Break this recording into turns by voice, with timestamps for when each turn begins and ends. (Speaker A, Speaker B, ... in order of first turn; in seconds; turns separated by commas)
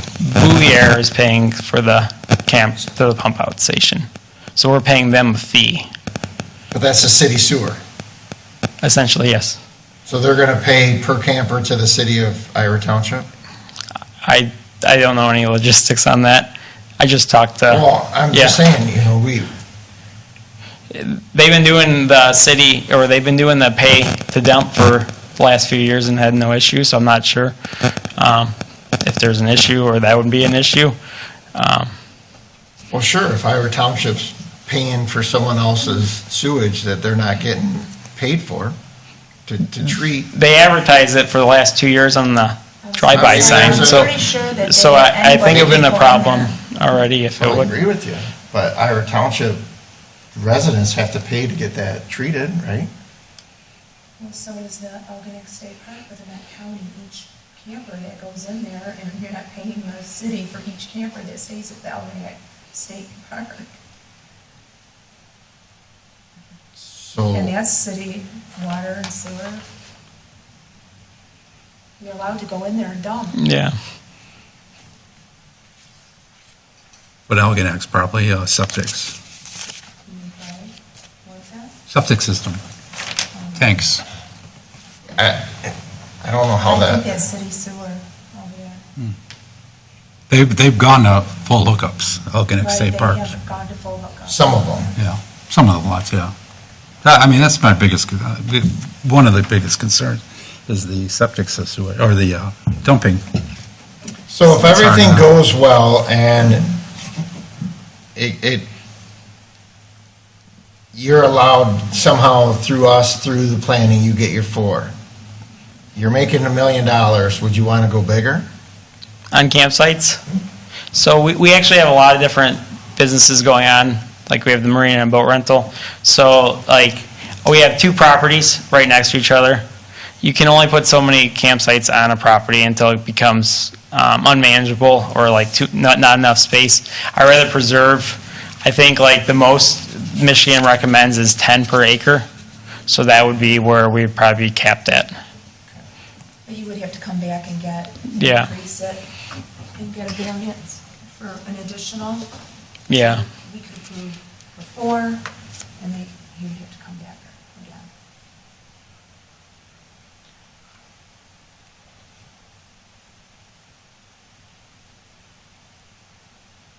Speaker A: 0.2-5.9, Speaker B: 6.7-7.8, Speaker A: 8.8-9.6, Speaker B: 10.1-13.3, Speaker A: 14.2-18.6, Speaker B: 17.7-19.5, Speaker A: 20.9-27.5, Speaker A: 28.2-30.9, Speaker A: 31.5-31.9, Speaker B: 32.9-38.7, Speaker B: 39.5-40.3, Speaker A: 40.3-47.7, Speaker C: 42.8-46.5, Speaker B: 43.1-44.1, Speaker B: 45.4-45.8, Speaker B: 47.4-49.6, Speaker B: 50.3-52.9, Speaker C: 54.2-63.8, Speaker B: 66.8-67.5, Speaker C: 67.3-69.6, Speaker C: 72.0-73.4, Speaker A: 73.3-73.7, Speaker D: 77.3-79.1, Speaker C: 80.0-81.7, Speaker D: 81.9-82.6, Speaker C: 83.3-83.7, Speaker D: 83.5-84.0, Speaker B: 85.2-87.1, Speaker C: 86.6-88.8, Speaker D: 90.3-93.3, Speaker C: 92.6-94.9, Speaker B: 94.3-94.9, Speaker D: 95.0-96.3, Speaker D: 97.0-103.2, Speaker B: 104.3-106.7, Speaker D: 104.5-105.3, Speaker B: 108.1-108.7, Speaker B: 110.9-114.9, Speaker B: 116.0-118.5, Speaker A: 119.3-120.2, Speaker A: 120.9-129.6, Speaker A: 130.2-142.3, Speaker A: 142.9-145.1, Speaker C: 146.4-149.0, Speaker A: 148.1-148.5, Speaker C: 149.7-152.2, Speaker A: 152.9-153.2, Speaker C: 153.3-155.2, Speaker C: 155.8-157.9